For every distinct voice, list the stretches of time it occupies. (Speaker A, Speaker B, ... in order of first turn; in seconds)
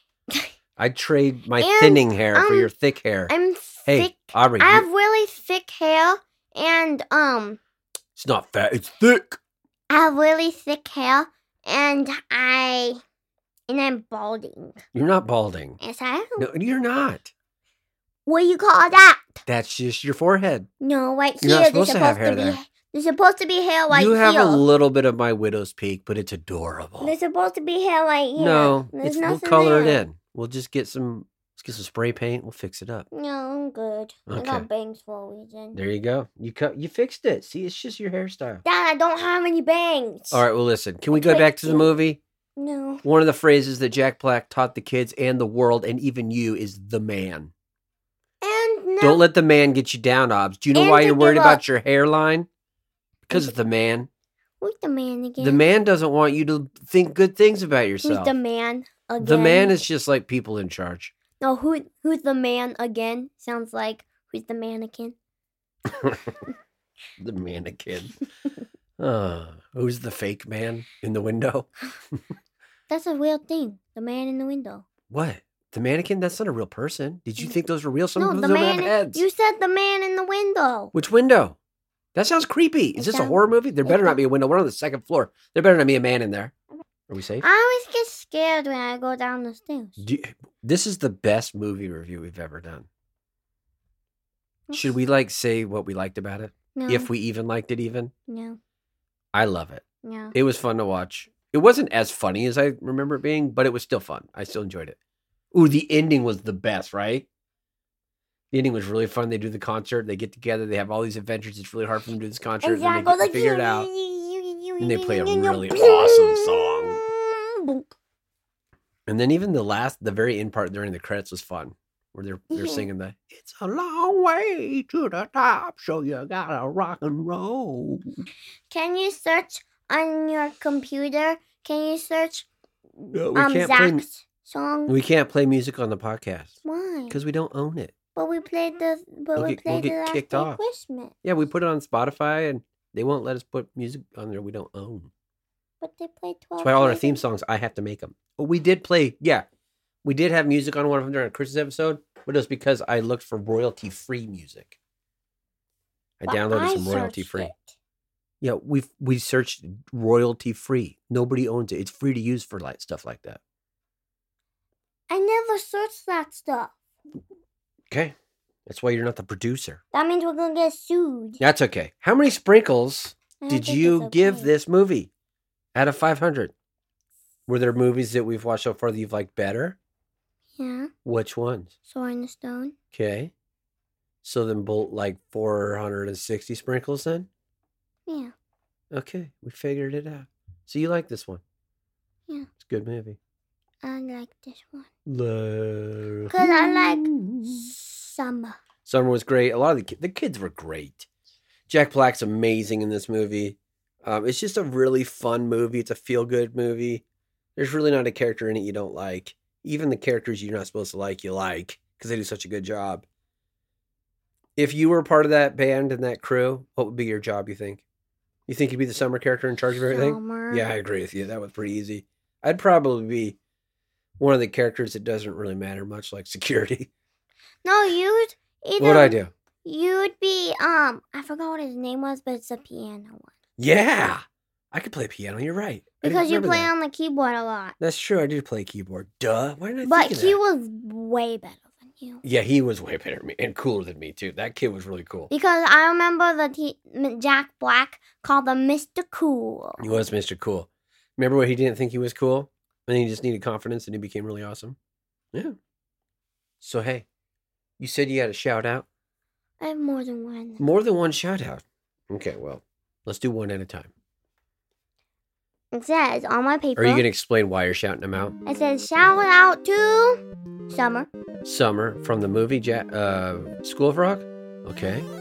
Speaker A: 0.8-3.3, 3.9-4.9, 8.1-9.4, 14.9-15.8, 16.4-17.3, 19.4-20.7, 21.4-22.6, 23.9-27.1, 28.4-33.0, 34.3-34.6, 35.7-38.6, 40.3-42.2, 43.0-47.5, 49.0-52.5, 53.3-54.1, 55.4-58.3, 59.2-61.1, 65.9-66.4, 67.2-68.2, 69.0-71.7, 75.1-79.2, 80.9-81.6, 82.1-86.5, 87.1-87.5, 90.0-92.9, 94.7-98.1, 99.3-105.0, 105.5-107.3, 108.5-113.9, 114.8-117.0, 119.1-128.2, 133.1-134.0, 134.9-136.6, 137.1-137.9, 139.4-140.6, 141.2-145.1, 146.6-149.4, 150.0-154.8, 156.2-157.5, 158.4-163.4, 168.7-169.8, 171.4-175.1, 175.7-176.5, 177.5-179.8, 181.0-181.7, 182.9-183.3, 184.2-187.3, 188.9-191.4, 192.6-193.2, 195.0-197.7, 198.8-201.1, 201.7-207.0, 207.6-213.1, 214.6-217.8, 218.5-223.4, 224.2-226.9, 228.8-229.3, 233.6-236.7, 237.8-240.4, 242.2-245.3, 249.8-254.8, 256.6-257.1, 257.8-258.9, 260.6-263.9, 266.8-268.4, 271.4-275.1
Speaker B: 1.6-2.7, 3.3-7.6, 9.9-13.0, 13.7-14.8, 15.8-16.5, 18.2-19.4, 20.8-24.6, 27.0-30.0, 33.1-35.8, 38.6-40.4, 41.1-42.0, 42.6-43.0, 48.4-49.2, 50.7-51.6, 54.6-55.6, 58.0-59.7, 61.4-65.2, 72.9-74.9, 78.2-80.9, 83.0-84.2, 87.4-90.0, 94.7-95.0, 96.7-97.1, 98.3-98.6, 100.0-100.3, 112.6-117.9, 122.5-122.9, 128.7-132.5, 133.0-134.9, 136.6-137.2, 138.1-141.1, 145.8-147.2, 156.2-157.7, 165.1-166.8, 169.9-171.4, 173.4-174.5, 180.6-180.9, 181.9-182.7, 188.1-188.3, 193.8-194.9, 196.3-198.6, 219.9-220.7, 227.6-233.3, 236.0-237.8, 239.8-242.2, 245.3-250.0, 259.6-260.6, 265.7-267.0, 268.4-271.1